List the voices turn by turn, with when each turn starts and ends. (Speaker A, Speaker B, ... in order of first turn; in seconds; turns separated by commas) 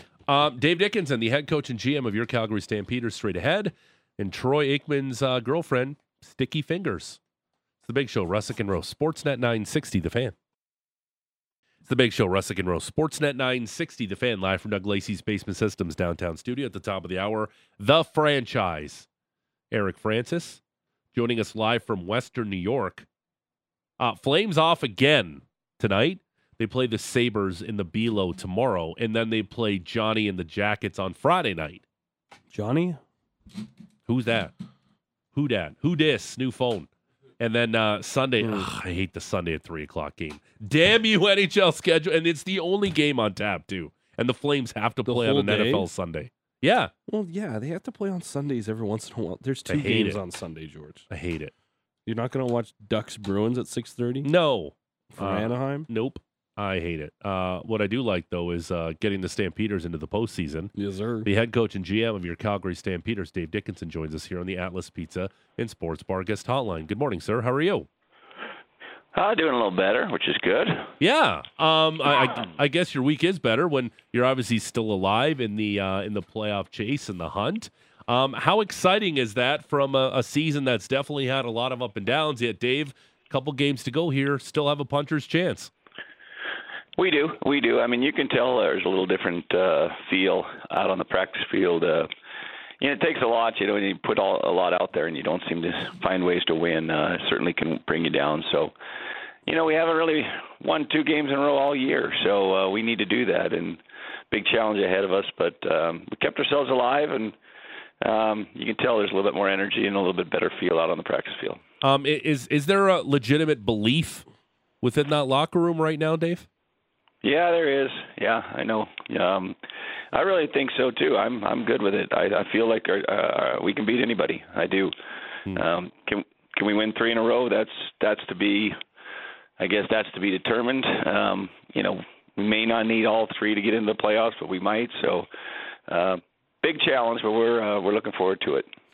Speaker A: 0.3-7.2, Speaker A: 7.8-10.3, Speaker A: 11.8-19.1, Speaker A: 19.7-20.6, Speaker A: 21.1-23.1, Speaker A: 24.0-31.8, Speaker B: 32.5-33.0, Speaker A: 34.1-34.5, Speaker A: 35.3-36.9, Speaker A: 37.4-46.9, Speaker B: 38.4-38.7, Speaker B: 45.0-45.9, Speaker B: 47.1-51.0, Speaker A: 49.7-50.2, Speaker A: 51.1-51.5, Speaker B: 52.1-54.3, Speaker A: 54.2-60.7, Speaker B: 55.1-55.9, Speaker B: 60.8-61.3, Speaker A: 61.2-67.9, Speaker C: 69.1-70.9, Speaker A: 71.0-85.7, Speaker C: 87.0-92.1, Speaker C: 92.8-98.7, Speaker C: 99.5-103.8, Speaker C: 104.3-107.3, Speaker C: 108.0-111.6, Speaker A: 111.8-114.2, Speaker A: 114.8-116.5, Speaker C: 117.2-119.6, Speaker C: 120.1-124.9, Speaker C: 125.5-128.8, Speaker C: 129.6-135.3, Speaker C: 135.9-138.7